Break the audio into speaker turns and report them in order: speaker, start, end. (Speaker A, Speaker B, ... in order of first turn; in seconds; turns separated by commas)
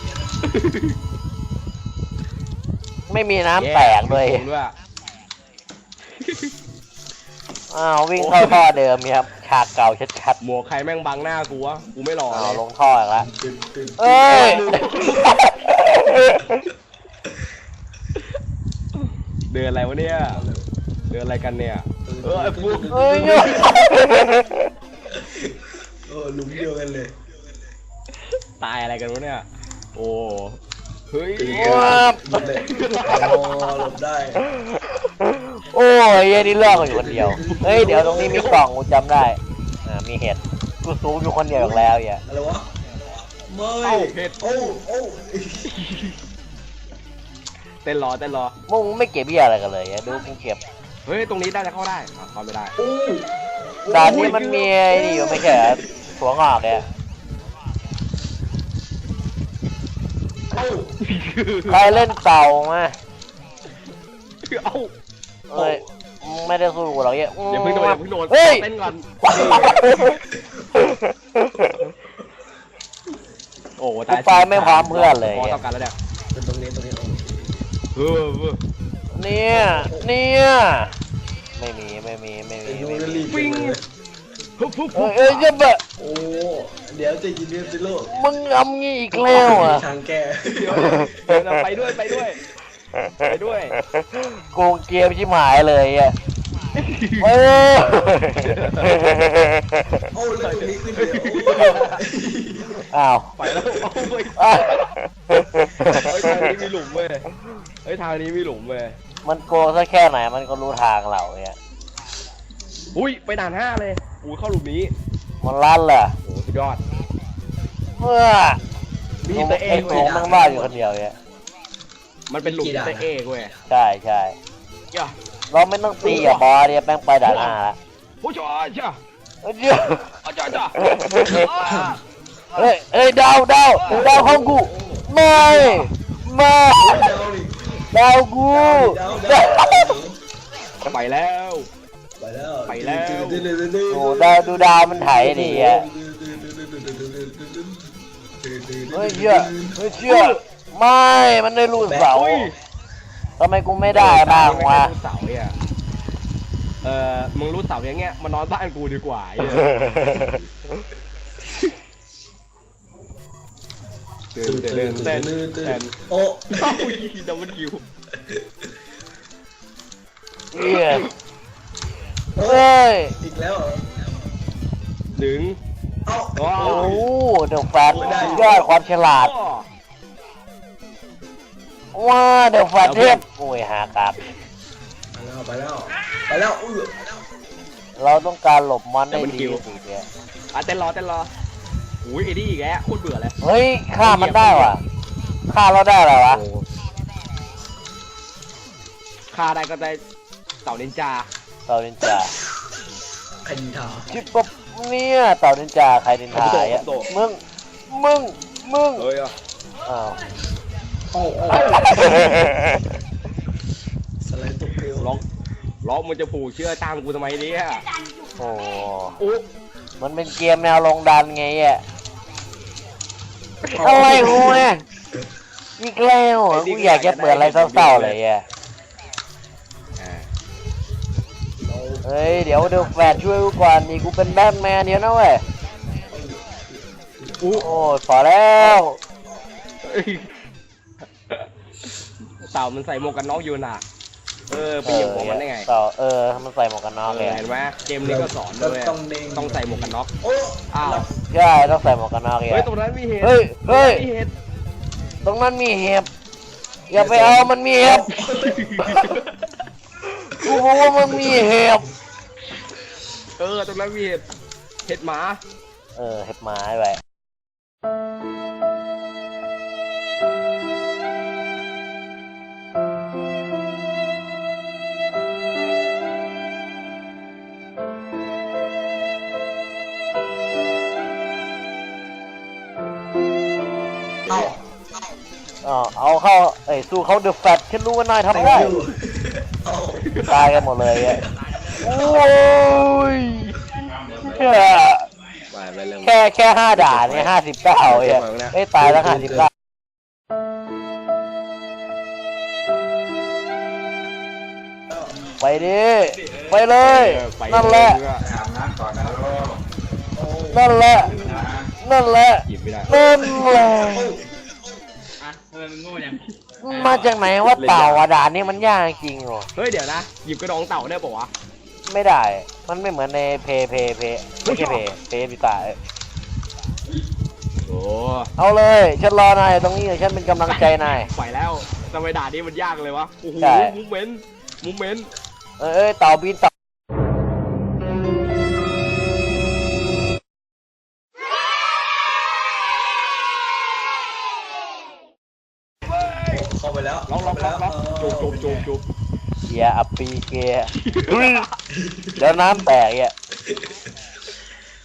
Speaker A: 0.4-1.0, Speaker B: 3.1-4.5, Speaker A: 3.5-4.7, Speaker A: 6.2-6.5, Speaker B: 7.7-10.4, Speaker A: 8.2-8.6, Speaker A: 10.4-12.6, Speaker B: 12.3-13.3, Speaker C: 13.2-14.9, Speaker B: 14.0-16.6, Speaker A: 14.3-15.4, Speaker A: 19.5-20.4, Speaker C: 20.0-20.7, Speaker A: 21.1-23.5, Speaker C: 22.1-24.2, Speaker B: 22.9-24.6, Speaker C: 25.1-27.1, Speaker A: 28.6-30.6, Speaker A: 31.1-33.9, Speaker C: 31.4-34.4, Speaker B: 31.5-32.5, Speaker B: 34.4-42.2, Speaker C: 36.3-38.6, Speaker A: 37.3-38.6, Speaker C: 41.5-42.7, Speaker C: 43.5-45.7, Speaker A: 43.8-44.7, Speaker A: 45.7-46.2, Speaker A: 47.9-48.6, Speaker B: 48.7-50.6, Speaker A: 51.1-52.8, Speaker C: 52.8-53.3, Speaker C: 53.9-55.8, Speaker B: 53.9-56.9, Speaker A: 53.9-54.8, Speaker C: 60.5-61.0, Speaker A: 61.0-62.0, Speaker B: 61.7-63.0, Speaker A: 64.5-64.9, Speaker B: 65.5-68.7, Speaker A: 65.5-65.8, Speaker A: 67.5-70.2, Speaker C: 69.3-70.7, Speaker B: 69.3-70.1, Speaker B: 70.8-71.8, Speaker A: 73.8-75.9, Speaker B: 74.1-75.6, Speaker C: 76.3-77.7, Speaker A: 78.0-78.6, Speaker B: 79.1-81.0, Speaker C: 79.5-80.1, Speaker B: 81.6-83.3, Speaker C: 82.7-83.8, Speaker A: 83.3-83.8, Speaker A: 84.6-85.5, Speaker B: 85.0-85.8, Speaker C: 86.0-88.1, Speaker B: 88.1-89.8, Speaker C: 89.1-91.1, Speaker A: 90.5-92.4, Speaker B: 90.8-91.5, Speaker C: 91.8-92.3, Speaker B: 93.0-93.3, Speaker A: 93.3-93.8, Speaker B: 94.0-96.2, Speaker A: 96.8-97.6, Speaker B: 97.2-100.0, Speaker A: 98.4-99.0, Speaker C: 100.1-102.9, Speaker A: 100.4-102.0, Speaker B: 102.9-103.3, Speaker A: 103.4-105.0, Speaker B: 104.3-106.6, Speaker A: 105.9-107.3, Speaker A: 107.8-109.0, Speaker B: 109.2-111.6, Speaker A: 113.0-114.9, Speaker B: 115.4-116.2, Speaker A: 116.2-116.8, Speaker B: 118.0-118.6, Speaker C: 119.2-120.8, Speaker B: 119.3-121.2, Speaker A: 119.4-120.3, Speaker A: 122.3-123.5, Speaker C: 122.4-123.1, Speaker B: 123.7-124.3, Speaker B: 125.5-127.8, Speaker A: 126.0-126.5, Speaker C: 126.0-126.4, Speaker A: 127.2-127.6, Speaker A: 128.2-129.0, Speaker B: 129.4-130.2, Speaker A: 130.2-132.0, Speaker B: 130.8-131.5, Speaker C: 131.6-132.0, Speaker B: 132.6-137.1, Speaker A: 133.8-134.3, Speaker C: 133.9-135.7, Speaker A: 135.4-135.9, Speaker C: 136.8-137.8, Speaker B: 137.9-140.0, Speaker C: 138.5-140.2, Speaker A: 140.8-141.7, Speaker C: 142.2-149.8, Speaker A: 142.7-143.5, Speaker B: 143.9-145.9, Speaker B: 148.9-152.5, Speaker A: 150.1-150.4, Speaker C: 151.9-152.2, Speaker A: 152.1-152.6, Speaker B: 153.4-154.9, Speaker A: 153.9-155.5, Speaker A: 156.8-160.2, Speaker B: 159.4-160.4, Speaker A: 164.3-165.9, Speaker C: 164.4-167.0, Speaker A: 166.5-167.8, Speaker B: 170.5-171.1, Speaker A: 170.6-171.1, Speaker C: 172.4-173.9, Speaker B: 172.4-173.1, Speaker A: 175.2-175.6, Speaker C: 176.1-177.0, Speaker A: 176.4-177.0, Speaker B: 176.6-179.3, Speaker C: 177.9-178.7, Speaker A: 177.9-179.7, Speaker B: 181.9-184.2, Speaker A: 182.8-183.2, Speaker C: 185.1-187.0, Speaker B: 188.0-190.1, Speaker A: 189.1-189.6, Speaker A: 190.5-191.3, Speaker A: 192.0-193.4, Speaker B: 193.4-194.8, Speaker A: 194.0-194.8, Speaker B: 195.5-196.4, Speaker A: 196.3-196.7, Speaker A: 199.3-200.0, Speaker A: 200.7-201.3, Speaker B: 201.7-202.3, Speaker C: 203.4-204.1, Speaker B: 204.1-209.1, Speaker A: 206.3-207.1, Speaker A: 209.0-209.3, Speaker B: 209.9-210.2, Speaker C: 211.1-212.6, Speaker A: 211.6-212.0, Speaker B: 211.7-212.6, Speaker C: 214.2-215.2, Speaker A: 215.8-217.8, Speaker B: 218.4-219.2, Speaker B: 220.0-221.8, Speaker C: 223.7-224.7, Speaker B: 223.8-224.8, Speaker A: 224.0-224.4, Speaker B: 225.8-228.4, Speaker A: 226.5-228.2, Speaker A: 230.0-230.3, Speaker C: 231.6-233.4, Speaker B: 232.0-235.4, Speaker C: 236.1-237.9, Speaker A: 237.4-237.7, Speaker B: 237.6-239.0, Speaker A: 239.8-240.3, Speaker A: 242.5-243.8, Speaker A: 244.5-245.7, Speaker B: 244.8-247.4, Speaker A: 247.1-250.1, Speaker C: 248.0-251.2, Speaker A: 250.7-251.1, Speaker B: 251.3-252.7, Speaker A: 252.5-254.3, Speaker B: 253.2-254.1, Speaker B: 255.2-256.1, Speaker B: 256.9-258.1, Speaker C: 256.9-259.2, Speaker A: 258.1-259.3, Speaker B: 260.2-261.9, Speaker C: 260.4-261.7, Speaker A: 263.4-264.2, Speaker A: 264.9-265.4, Speaker B: 266.0-267.0, Speaker C: 284.3-284.6, Speaker B: 285.6-288.7, Speaker C: 288.3-290.1, Speaker A: 290.0-290.6, Speaker B: 290.3-291.2, Speaker B: 291.8-293.6, Speaker B: 294.1-295.1, Speaker A: 295.5-296.1, Speaker B: 296.0-299.5, Speaker A: 296.7-297.3, Speaker A: 297.8-298.6, Speaker C: 298.8-299.5, Speaker C: 304.9-305.2, Speaker B: 305.4-308.0, Speaker A: 306.8-308.3, Speaker C: 310.1-311.5, Speaker B: 310.5-314.1, Speaker A: 312.5-312.9, Speaker C: 312.9-314.3, Speaker A: 315.2-318.1, Speaker B: 316.6-319.5, Speaker A: 319.6-321.3, Speaker B: 321.9-325.8, Speaker A: 324.4-324.8, Speaker A: 327.7-328.3, Speaker B: 328.4-331.1, Speaker A: 330.5-335.1, Speaker B: 333.4-333.8, Speaker B: 335.6-336.5, Speaker A: 345.9-346.4, Speaker C: 346.3-348.7, Speaker A: 347.1-348.9, Speaker B: 349.5-351.5, Speaker A: 350.8-351.6, Speaker C: 351.7-352.7, Speaker B: 352.2-353.1